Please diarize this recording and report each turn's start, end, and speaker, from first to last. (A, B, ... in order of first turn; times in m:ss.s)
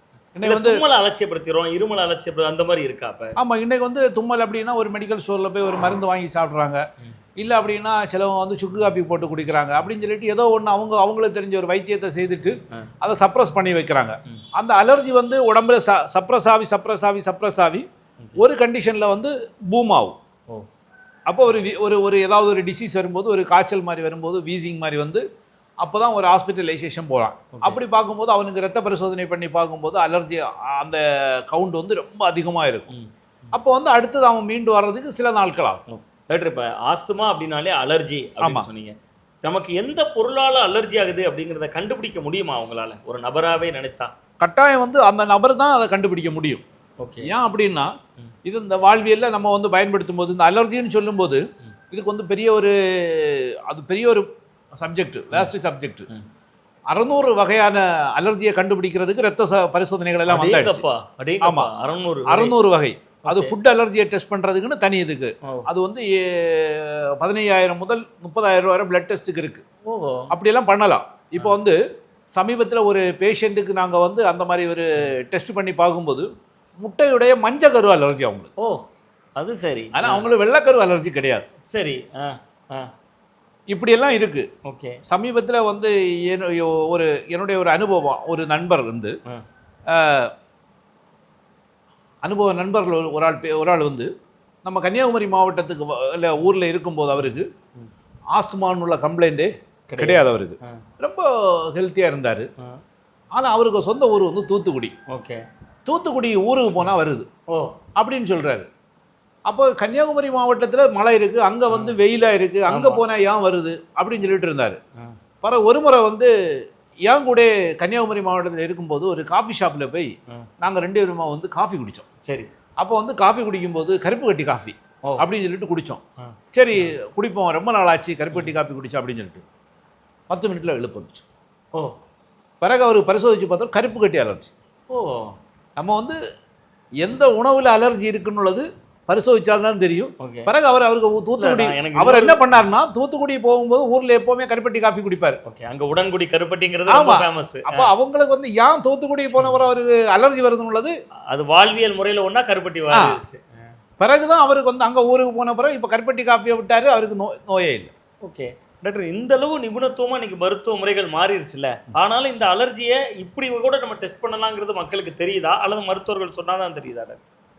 0:00.3-0:00.8 A
0:00.4-0:03.4 B
0:03.4-0:06.8 A
0:07.4-0:17.8 A
0:18.4-0:20.2 A
0:21.3-0:25.2 A
0:25.8-0:32.9 A
0:33.5-0:35.8 A
0:35.9-0:44.1 B
0:38.4-0:38.7 A
0:44.4-0:46.6 A
0:47.0-0:47.3 B
0:47.2-0:47.9 A
0:48.4-0:56.1 A
0:56.9-1:00.8 A
1:00.3-1:02.5 B
1:01.4-1:01.7 A
1:02.3-1:09.6 A
1:03.2-1:03.5 B
1:09.9-1:10.3 B
1:10.3-1:11.8 A
1:12.3-1:16.3 A
1:16.8-1:18.5 A
1:18.6-1:18.8 B
1:19.4-1:20.3 B
1:19.9-1:21.4 A
1:21.7-1:22.9 B
1:23.7-1:24.5 A
1:24.6-1:25.0 B
1:25.0-1:29.2 A
1:29.9-1:30.3 A
1:32.2-1:34.1 A
1:34.6-1:37.5 A
1:38.3-1:42.5 A
1:39.9-1:40.8 B
1:43.3-1:44.9 A
1:45.1-1:45.4 B
1:45.8-1:47.3 A
1:48.0-1:48.7 A
1:49.4-1:54.8 A
1:51.7-1:52.0 B
1:52.7-1:53.0 B
1:55.4-1:56.3 A
1:57.0-2:02.0 A
2:02.8-2:06.0 A
2:06.2-2:06.9 B
2:06.5-2:09.4 A
2:10.3-2:11.2 A
2:12.6-2:14.5 A
2:14.9-2:15.4 B
2:15.8-2:16.2 A
2:17.0-2:25.4 A
2:20.2-2:20.5 B
2:21.4-2:22.4 B
2:25.4-2:27.9 B
2:26.9-2:30.9 A
2:29.4-2:29.6 B
2:31.3-2:33.6 B
2:32.9-2:33.2 A
2:34.0-2:37.9 A
2:38.2-2:47.2 B